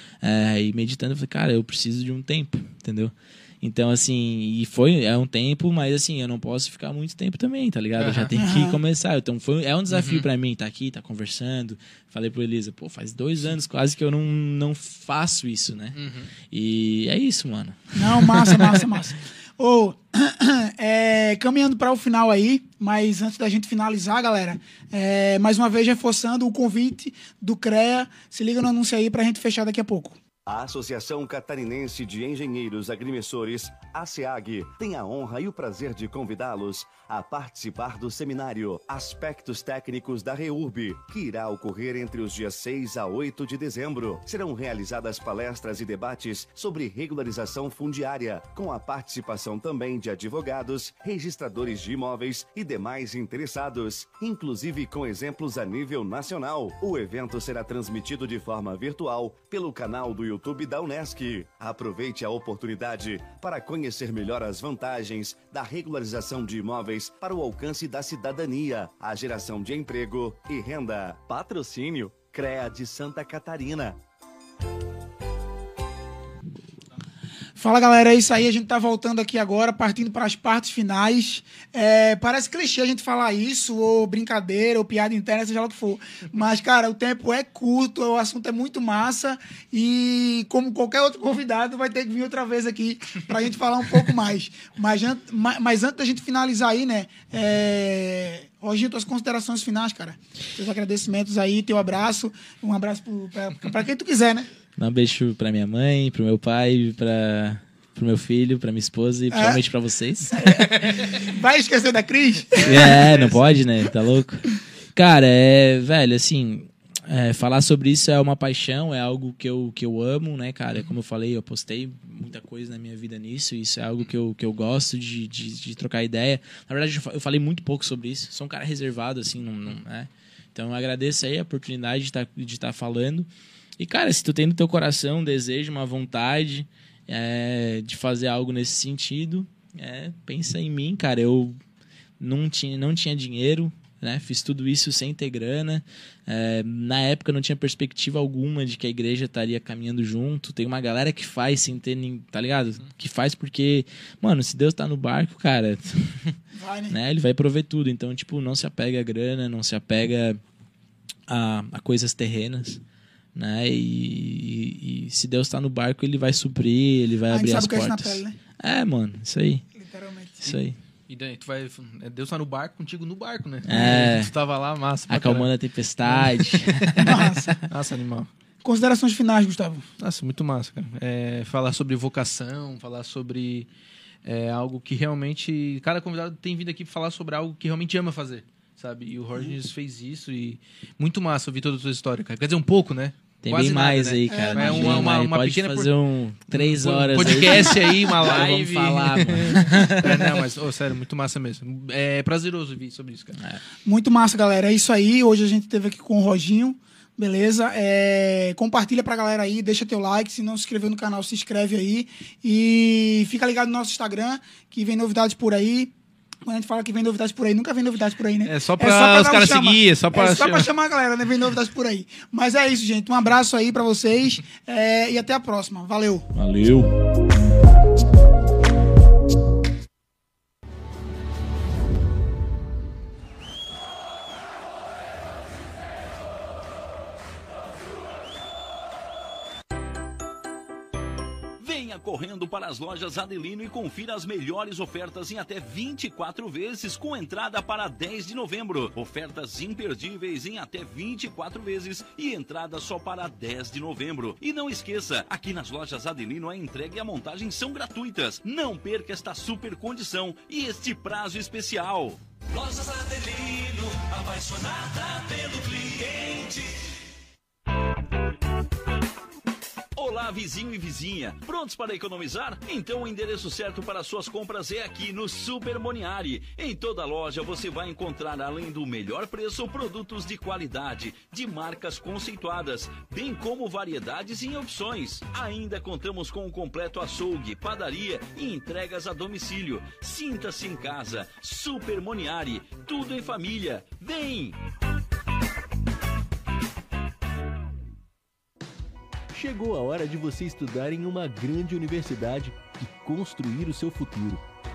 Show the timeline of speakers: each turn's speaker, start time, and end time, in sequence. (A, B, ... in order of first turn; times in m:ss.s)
0:00.2-0:18.8 A
0:08.0-0:08.3 B
0:08.4-0:08.8 C
0:09.9-0:10.3 B
0:16.0-0:16.3 B
0:18.0-0:30.2 C
0:30.5-1:14.0 D
1:17.6-1:44.5 C
1:44.8-1:50.7 A
1:49.3-1:49.6 C
1:50.3-1:53.2 C
1:52.6-1:53.5 B
1:52.6-2:13.3 A
2:13.8-2:21.6 A
2:22.2-2:36.4 A
2:36.5-2:37.0 C
2:36.9-2:40.4 A
2:41.3-2:42.8 A
2:43.4-2:49.7 A
2:47.3-2:48.4 C
2:49.7-2:50.5 C
2:50.4-2:55.5 B
2:50.4-2:50.8 A
2:53.7-2:54.3 A
2:55.1-2:57.6 A
2:56.0-2:58.3 B
2:57.0-2:57.6 C
2:58.6-2:59.9 C
3:00.0-3:03.7 B
3:04.2-3:15.9 B
3:13.4-3:20.5 A
3:14.3-3:15.0 C
3:16.5-3:23.4 B
3:23.4-3:23.6 A
3:23.8-3:35.9 C
3:36.4-3:46.3 C
3:38.4-3:40.7 B
3:46.3-3:46.9 A
4:01.6-4:22.2 E
4:22.5-4:26.9 F
4:30.0-4:54.6 E
4:59.3-5:04.4 G